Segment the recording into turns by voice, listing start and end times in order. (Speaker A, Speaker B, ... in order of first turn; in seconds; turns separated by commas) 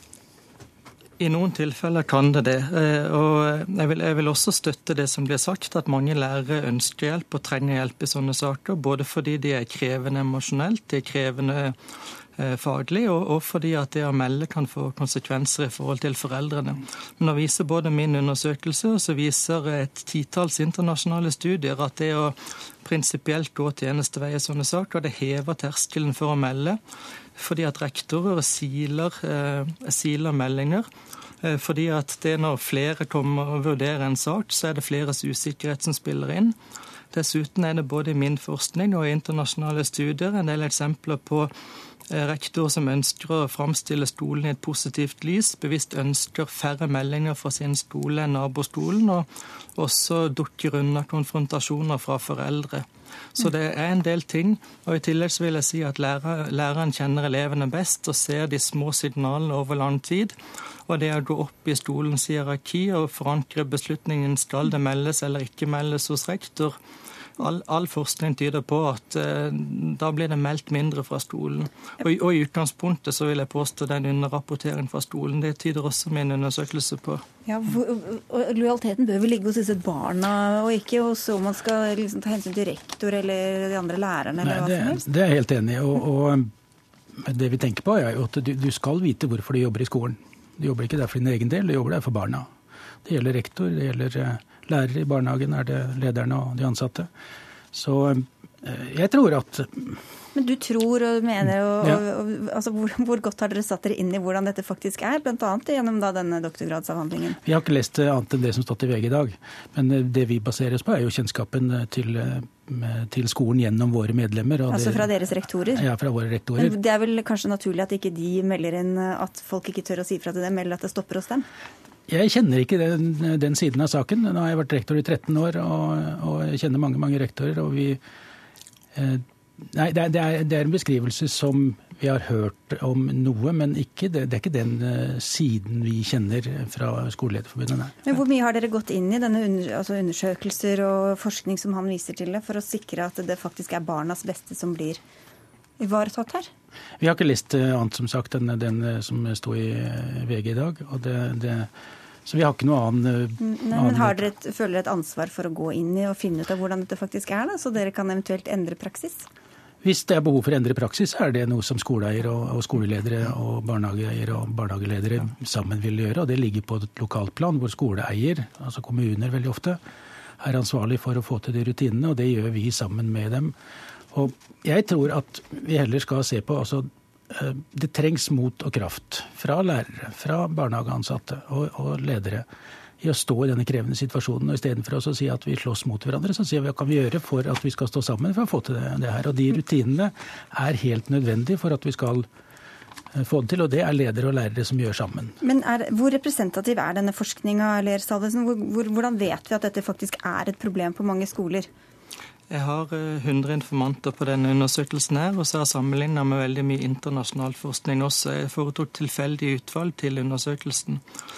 Speaker A: 1.2-11.8, Speaker A: 12.4-26.8, Speaker A: 27.4-30.9, Speaker A: 31.4-36.5, Speaker A: 37.1-41.5, Speaker A: 42.1-66.8, Speaker A: 67.4-77.2, Speaker B: 77.5-85.0, Speaker C: 84.4-86.5, Speaker C: 87.2-92.5, Speaker C: 93.0-97.1, Speaker C: 97.7-100.0, Speaker B: 100.3-107.4, Speaker C: 107.4-115.1, Speaker B: 114.7-115.8, Speaker C: 115.7-116.8, Speaker B: 116.6-121.5, Speaker C: 122.1-128.0, Speaker C: 128.9-138.0, Speaker B: 138.1-145.0, Speaker B: 145.8-146.5, Speaker C: 147.0-151.7, Speaker C: 152.2-154.3, Speaker B: 153.4-159.3, Speaker C: 159.8-169.8, Speaker C: 170.4-173.5, Speaker C: 174.1-182.4, Speaker C: 183.0-192.3, Speaker C: 193.1-195.4, Speaker B: 195.4-201.7, Speaker A: 202.5-211.0